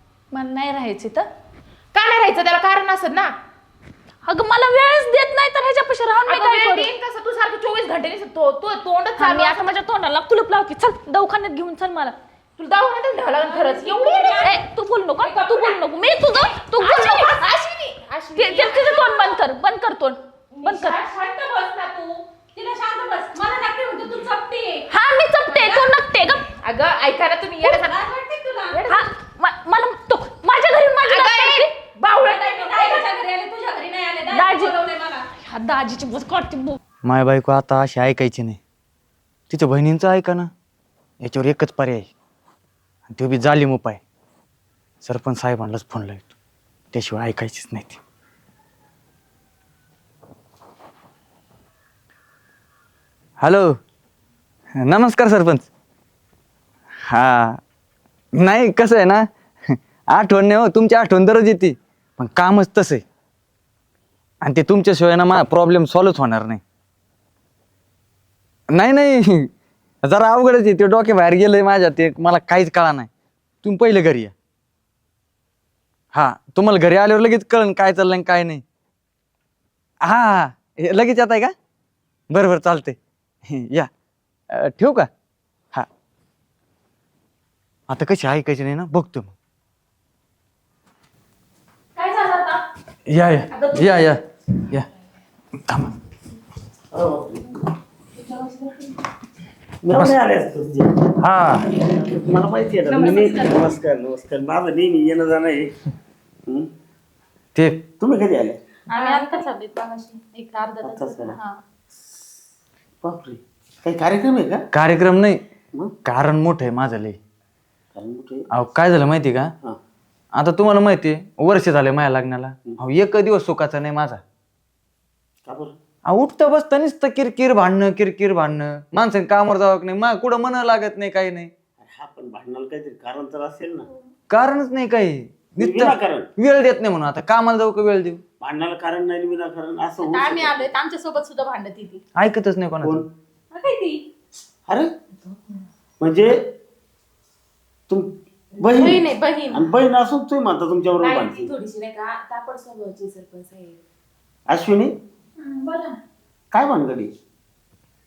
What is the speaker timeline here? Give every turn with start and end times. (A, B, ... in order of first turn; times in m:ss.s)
0:00.3-0:01.3 A
0:01.9-0:03.3 B
0:04.2-0:06.9 A
0:06.3-0:09.8 B
0:09.2-0:12.2 A
0:12.6-0:14.6 B
0:13.5-0:14.2 C
0:13.7-0:17.4 A
0:15.2-0:19.4 B
0:18.4-0:21.0 A
0:20.5-0:22.2 B
0:22.5-0:24.9 C
0:24.9-0:26.5 A
0:25.5-0:25.9 C
0:26.6-0:28.0 B
0:27.6-0:28.9 C
0:28.7-0:29.1 B
0:28.9-0:31.7 A
0:31.0-0:33.1 B
0:32.1-0:35.3 C
0:34.3-0:34.8 A
0:35.3-0:36.8 A
0:37.0-0:38.6 D
0:39.5-0:40.5 D
0:41.2-0:42.1 D
0:43.1-0:44.0 D
0:45.0-0:46.3 D
0:46.9-0:48.0 D
0:53.4-0:53.8 D
0:54.7-0:55.7 D
0:57.0-0:57.6 D
0:58.4-1:03.0 D
1:04.4-1:06.6 D
1:08.7-1:09.5 D
1:10.0-1:13.1 D
1:13.6-1:14.3 D
1:16.1-1:18.6 D
1:20.0-1:21.5 D
1:22.3-1:23.9 D
1:24.5-1:25.1 D
1:27.9-1:29.3 D
1:32.0-1:32.6 A
1:33.0-1:34.9 D
1:33.5-1:34.2 B
1:35.5-1:35.9 D
1:36.9-1:37.5 E
1:39.8-1:41.1 E
1:41.2-1:41.7 D
1:41.8-1:45.7 E
1:42.9-1:43.5 C
1:43.1-1:43.4 B
1:47.5-1:47.8 D
1:48.0-1:48.6 E
1:48.9-1:49.3 B
1:48.9-1:51.6 C
1:49.0-1:49.4 A
1:50.8-1:51.4 E
1:53.0-1:54.6 E
1:54.7-1:55.4 D
1:56.0-1:57.2 D
1:57.9-1:58.5 E
1:58.5-1:59.5 D
2:00.3-2:04.2 D
2:05.4-2:05.8 E
2:06.0-2:11.5 D
2:11.8-2:13.9 E
2:14.3-2:18.2 D
2:15.6-2:16.3 E
2:18.4-2:20.7 E
2:20.0-2:22.0 C
2:22.1-2:23.0 D
2:22.8-2:23.1 E
2:23.5-2:24.0 C
2:26.0-2:26.4 E
2:27.9-2:31.5 E
2:28.6-2:29.7 C
2:31.0-2:33.8 B
2:34.5-2:34.9 E
2:35.4-2:36.0 A
2:36.5-2:37.1 E